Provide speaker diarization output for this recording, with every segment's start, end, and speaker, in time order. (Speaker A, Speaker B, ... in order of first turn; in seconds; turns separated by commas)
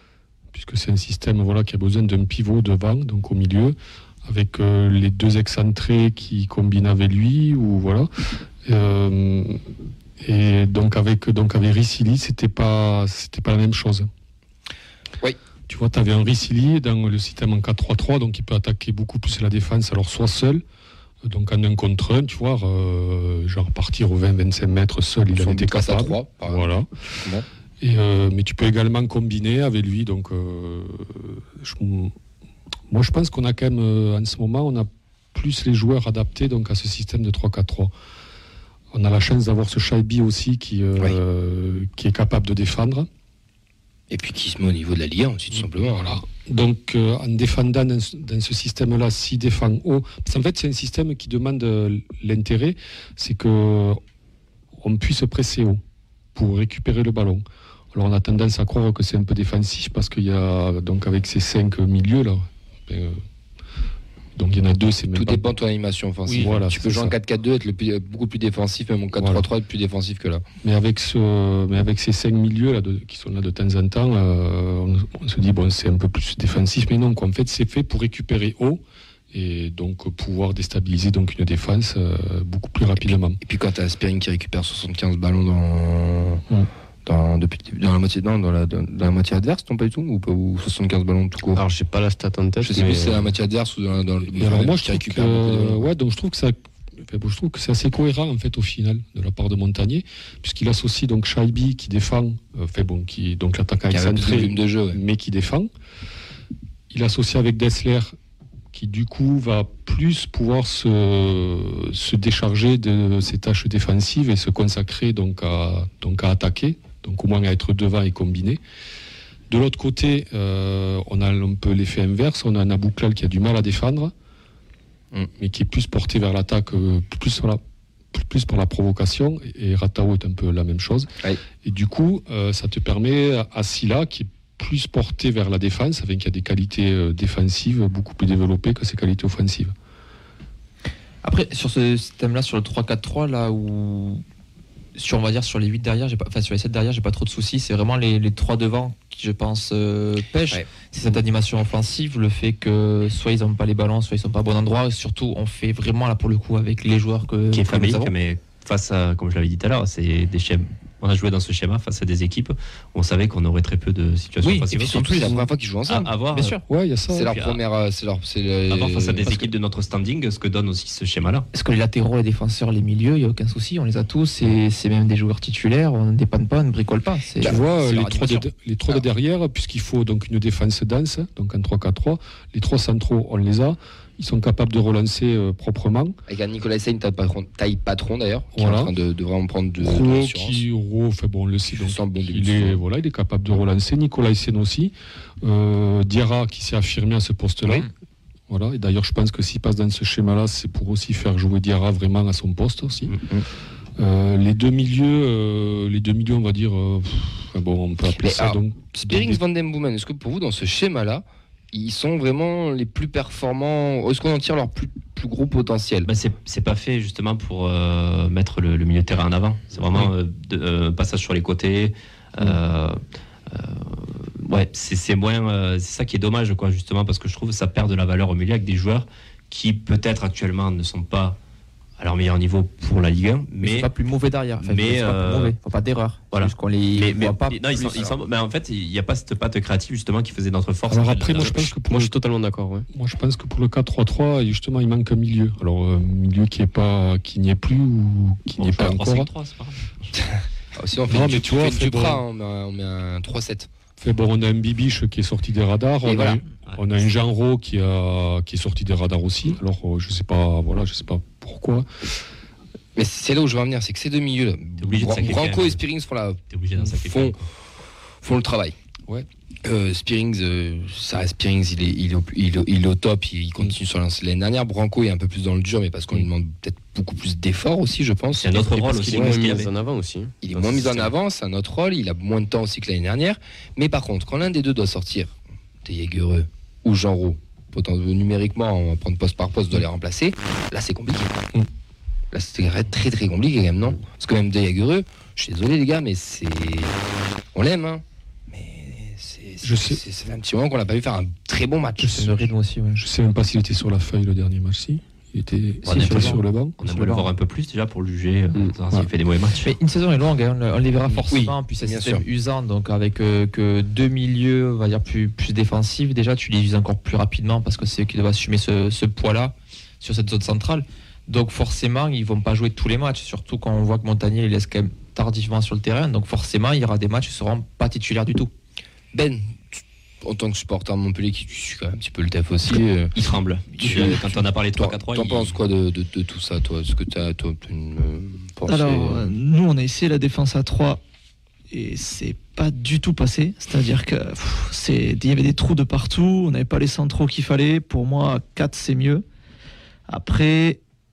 Speaker A: 0.5-14.1, Speaker A: 15.7-20.6, Speaker A: 21.2-32.1, Speaker B: 25.4-26.7, Speaker A: 32.9-37.9, Speaker A: 38.9-43.1, Speaker B: 44.1-46.2, Speaker A: 45.8-54.0, Speaker A: 54.8-55.8, Speaker A: 56.3-63.2, Speaker A: 64.3-65.5, Speaker B: 65.1-70.4, Speaker A: 66.3-67.1, Speaker A: 69.2-69.5, Speaker A: 70.6-83.4, Speaker B: 83.0-86.4, Speaker B: 87.0-91.6, Speaker C: 91.5-93.2, Speaker B: 92.6-95.9, Speaker A: 94.3-105.7, Speaker B: 103.9-105.0, Speaker A: 106.9-108.1, Speaker A: 108.7-118.6, Speaker A: 119.5-124.1, Speaker A: 125.4-127.6, Speaker A: 128.1-131.1, Speaker A: 131.6-139.7, Speaker D: 141.2-144.2, Speaker D: 144.9-158.1, Speaker E: 157.5-165.3, Speaker D: 164.4-165.3, Speaker B: 164.8-166.1, Speaker E: 165.9-166.5, Speaker D: 166.3-166.6, Speaker A: 166.7-167.3, Speaker B: 167.1-169.3, Speaker E: 167.2-167.6, Speaker E: 168.7-171.5, Speaker D: 171.5-177.6, Speaker B: 177.4-179.0, Speaker A: 177.4-186.2, Speaker B: 186.3-190.6, Speaker A: 188.5-188.9, Speaker A: 189.8-197.9, Speaker B: 191.7-192.8, Speaker A: 198.5-203.1, Speaker B: 203.2-203.4, Speaker A: 204.0-209.4, Speaker B: 208.2-216.1, Speaker E: 216.1-231.4, Speaker E: 232.0-233.9, Speaker D: 233.6-237.6, Speaker E: 234.6-235.5, Speaker E: 236.3-241.7, Speaker B: 237.7-238.2, Speaker A: 240.9-242.1, Speaker C: 241.9-242.9, Speaker A: 242.9-249.3, Speaker E: 248.6-250.1, Speaker B: 250.2-253.7, Speaker A: 251.1-252.2, Speaker A: 254.0-262.1, Speaker B: 256.0-256.4, Speaker B: 262.9-267.4, Speaker E: 264.8-265.8, Speaker E: 266.5-267.4, Speaker B: 268.2-268.8, Speaker B: 269.6-279.3, Speaker E: 278.3-279.7, Speaker C: 278.8-281.0, Speaker B: 280.4-291.4, Speaker B: 292.3-296.9, Speaker B: 297.5-302.4, Speaker A: 299.6-300.0, Speaker D: 302.0-303.0, Speaker A: 302.9-306.7, Speaker D: 305.9-307.3, Speaker E: 305.9-309.8, Speaker D: 309.6-328.5, Speaker B: 311.3-312.2, Speaker B: 329.1-333.1, Speaker E: 333.1-335.6, Speaker B: 333.8-339.3, Speaker F: 338.7-341.0, Speaker F: 341.7-349.2, Speaker F: 350.1-350.8